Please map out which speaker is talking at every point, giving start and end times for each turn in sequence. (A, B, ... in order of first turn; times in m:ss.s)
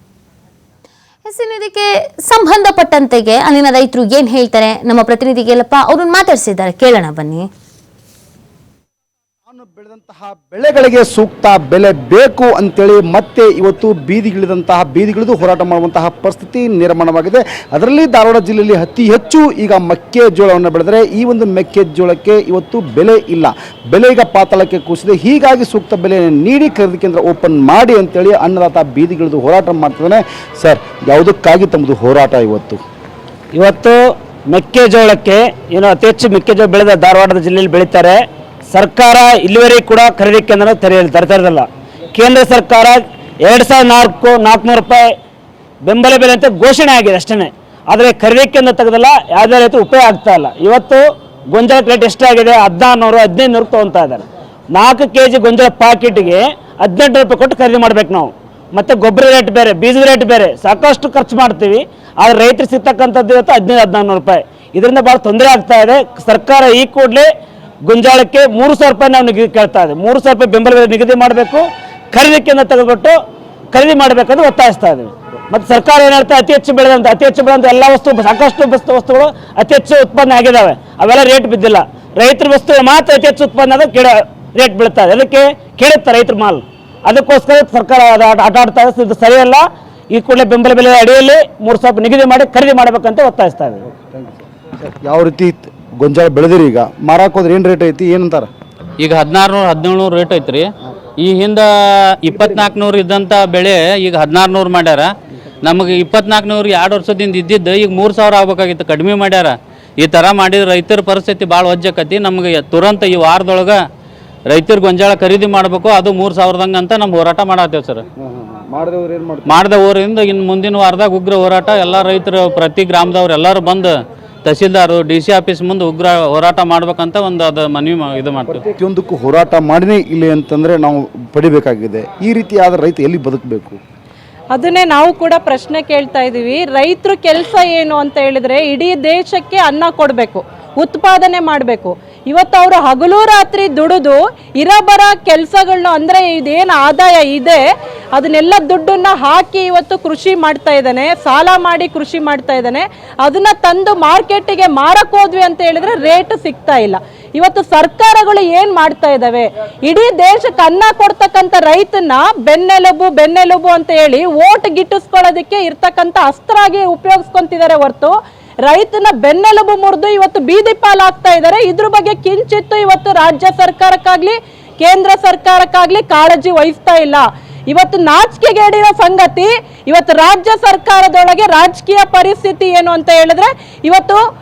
0:01.2-0:07.5 A
0:09.5-0:32.8 B
0:33.5-0:45.1 C
0:45.8-1:07.3 C
1:07.8-1:13.2 C
1:13.7-1:33.8 C
1:33.9-1:38.5 B
1:39.0-1:41.7 D
1:42.2-1:45.1 D
1:45.6-1:53.8 D
1:54.5-1:58.0 D
1:58.2-1:59.6 B
1:59.5-2:08.6 D
2:08.5-2:13.8 B
2:14.5-2:27.6 E
2:28.2-2:48.1 E
2:48.7-3:04.2 E